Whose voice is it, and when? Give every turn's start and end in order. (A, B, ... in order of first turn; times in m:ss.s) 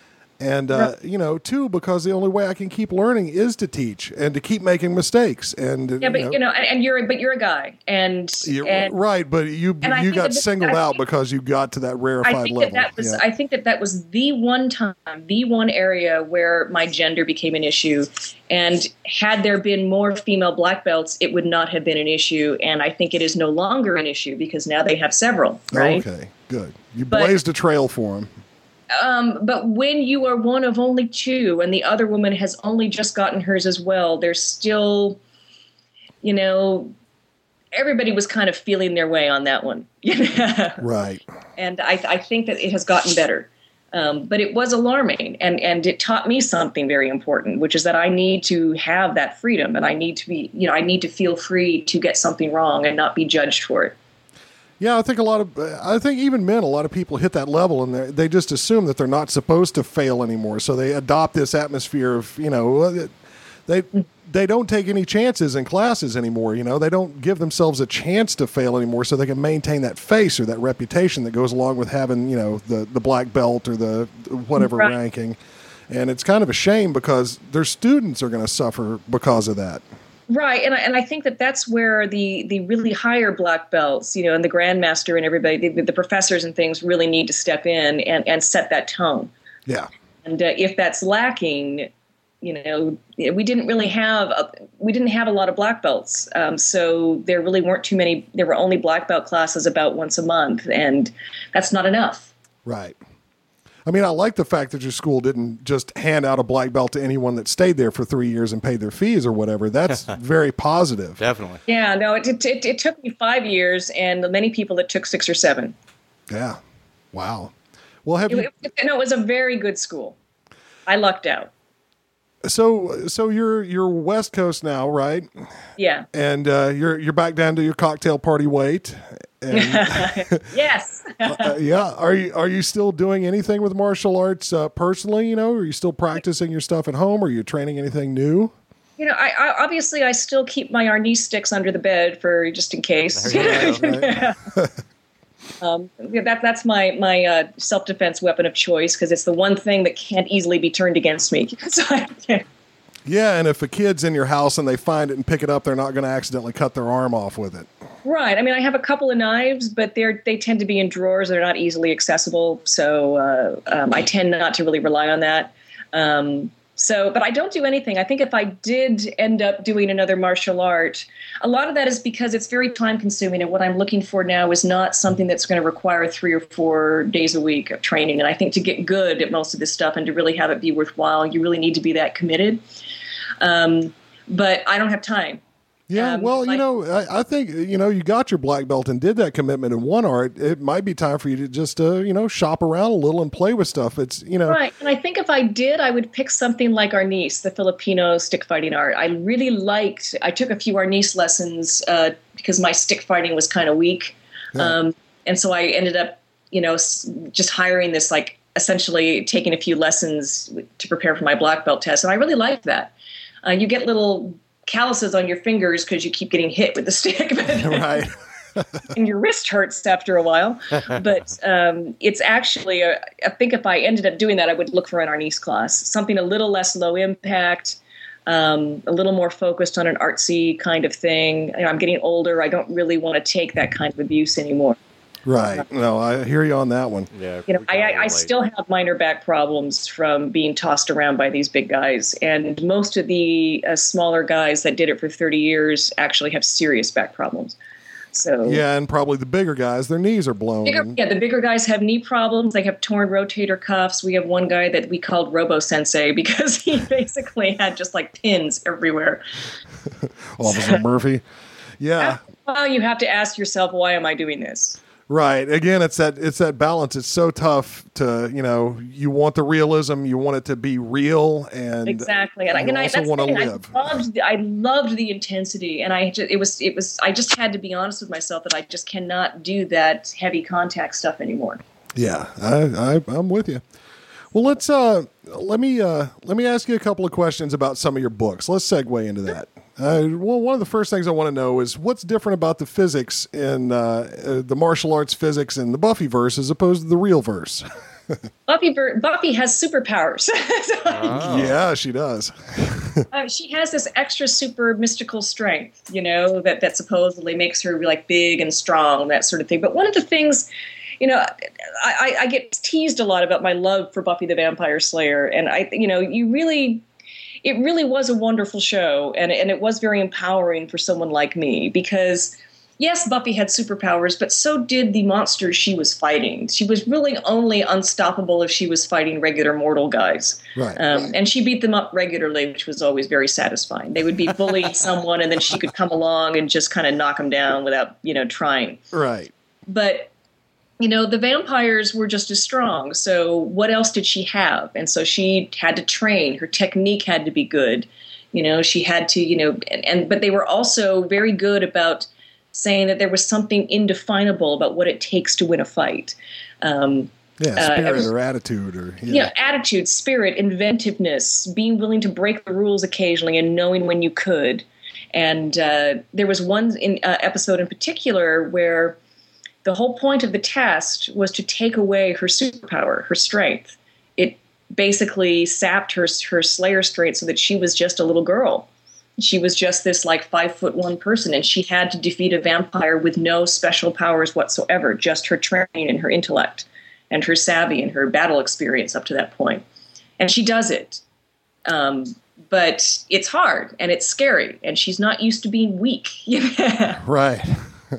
0:00.4-0:06.4 A
0:06.0-0:09.0 B
0:08.4-0:13.2 A
0:09.8-0:11.0 B
0:12.2-0:26.0 B
0:25.7-0:28.3 A
0:27.1-0:27.4 B
0:28.9-0:35.2 B
0:36.2-0:36.9 B
0:37.7-0:40.8 B
0:40.8-0:41.2 A
0:41.6-0:53.9 B
0:54.8-1:03.1 A
1:03.7-1:15.4 A
1:14.5-1:14.9 B
1:15.9-1:19.8 A
1:20.3-1:29.3 B
1:30.2-1:31.9 B
1:32.4-1:42.3 B
1:42.6-1:43.0 A
1:43.8-1:51.2 A
1:51.2-1:51.6 C
1:51.6-1:55.7 B
1:56.3-1:56.6 A
1:57.1-1:57.5 A
1:58.0-1:58.5 A
1:58.3-2:00.2 B
2:00.9-2:01.5 B
2:02.4-2:05.3 A
2:05.8-2:06.1 B
2:06.1-2:10.4 A
2:09.5-2:11.6 B
2:11.2-2:18.5 A
2:19.0-2:24.4 B
2:23.1-2:23.8 C
2:23.3-2:24.7 A
2:25.6-2:32.4 B
2:33.0-2:37.7 A
2:38.0-3:02.6 B
3:03.4-3:05.4 B
3:05.9-3:14.6 A
3:05.9-3:06.6 B
3:14.5-3:32.9 B
3:33.4-3:38.0 B
3:37.6-3:38.8 A
3:38.9-3:54.8 B
3:55.2-3:57.1 A
3:57.1-3:58.3 C
3:57.5-4:07.6 B
4:08.1-4:08.6 B
4:08.4-4:11.0 A
4:10.6-4:19.2 B
4:20.4-4:21.2 A
4:20.4-4:20.8 B
4:21.8-4:22.2 A
4:22.0-4:24.8 B
4:25.1-4:34.0 A
4:31.8-4:41.6 B
4:41.9-4:43.6 A
4:44.3-4:58.2 A
4:58.5-5:01.2 B
5:00.9-5:01.6 C
5:01.1-5:03.0 A
5:03.1-5:10.5 B
5:11.0-5:16.8 B
5:17.4-5:38.8 B
5:30.6-5:30.8 A
5:38.9-5:39.3 A
5:39.7-5:40.1 B
5:40.8-5:58.1 B
5:57.4-5:59.3 A
5:59.1-6:09.0 B
6:09.6-6:29.6 B
6:30.2-6:31.0 B
6:31.6-6:37.0 B
6:37.0-6:37.6 A